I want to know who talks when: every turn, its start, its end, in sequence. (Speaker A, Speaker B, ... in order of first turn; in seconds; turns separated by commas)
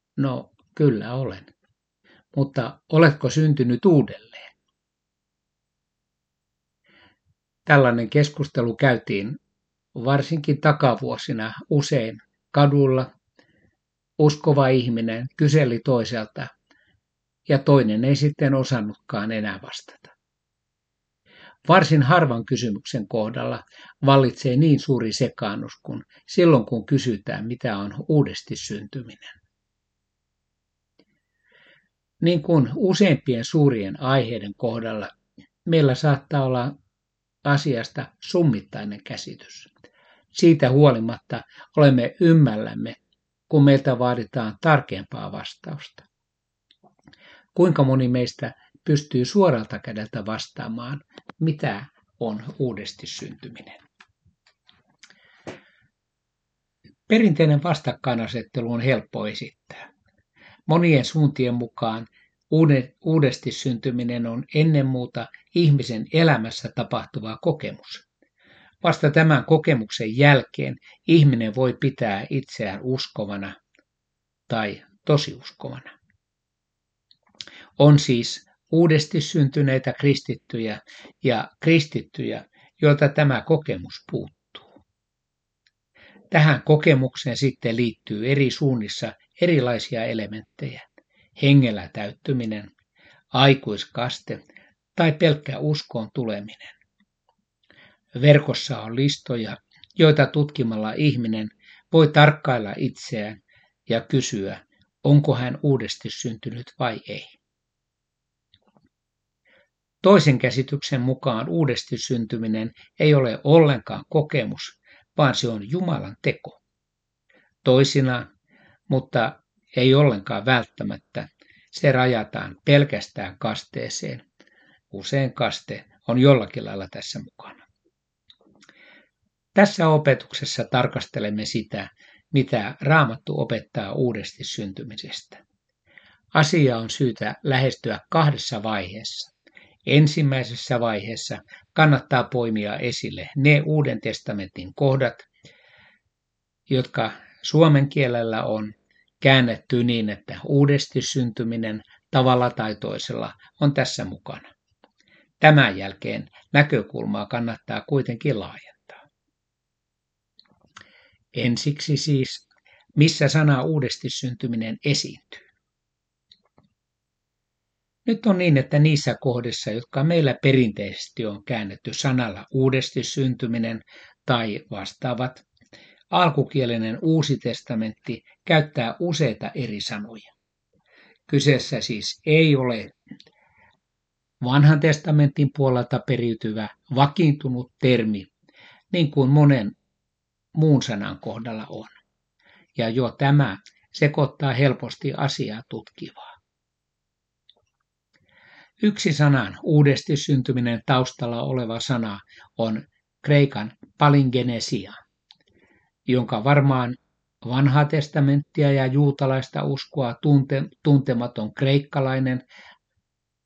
Speaker A: 0.2-1.5, Speaker A: 2.3-4.5, Speaker A: 7.7-9.4, Speaker A: 9.9-13.1, Speaker A: 14.2-16.5, Speaker A: 17.5-20.1, Speaker A: 21.6-29.4, Speaker A: 32.2-35.1, Speaker A: 35.7-36.7, Speaker A: 37.4-39.7, Speaker A: 40.3-46.1, Speaker A: 47.5-53.8, Speaker A: 57.1-59.9, Speaker A: 60.7-68.1, Speaker A: 68.8-73.6, Speaker A: 74.5-76.0, Speaker A: 77.8-84.7, Speaker A: 86.3-90.9, Speaker A: 91.4-92.7, Speaker A: 93.3-94.4, Speaker A: 95.0-96.8, Speaker A: 98.2-107.4, Speaker A: 110.0-116.6, Speaker A: 117.6-118.3, Speaker A: 118.9-124.2, Speaker A: 124.9-127.7, Speaker A: 129.6-135.4, Speaker A: 136.3-139.3, Speaker A: 139.9-145.3, Speaker A: 146.7-154.5, Speaker A: 155.4-159.0, Speaker A: 161.3-165.5, Speaker A: 168.1-175.4, Speaker A: 176.1-180.3, Speaker A: 181.3-182.9, Speaker A: 184.4-188.3, Speaker A: 188.9-189.8, Speaker A: 190.6-192.0, Speaker A: 192.8-196.4, Speaker A: 198.8-205.0, Speaker A: 206.1-212.4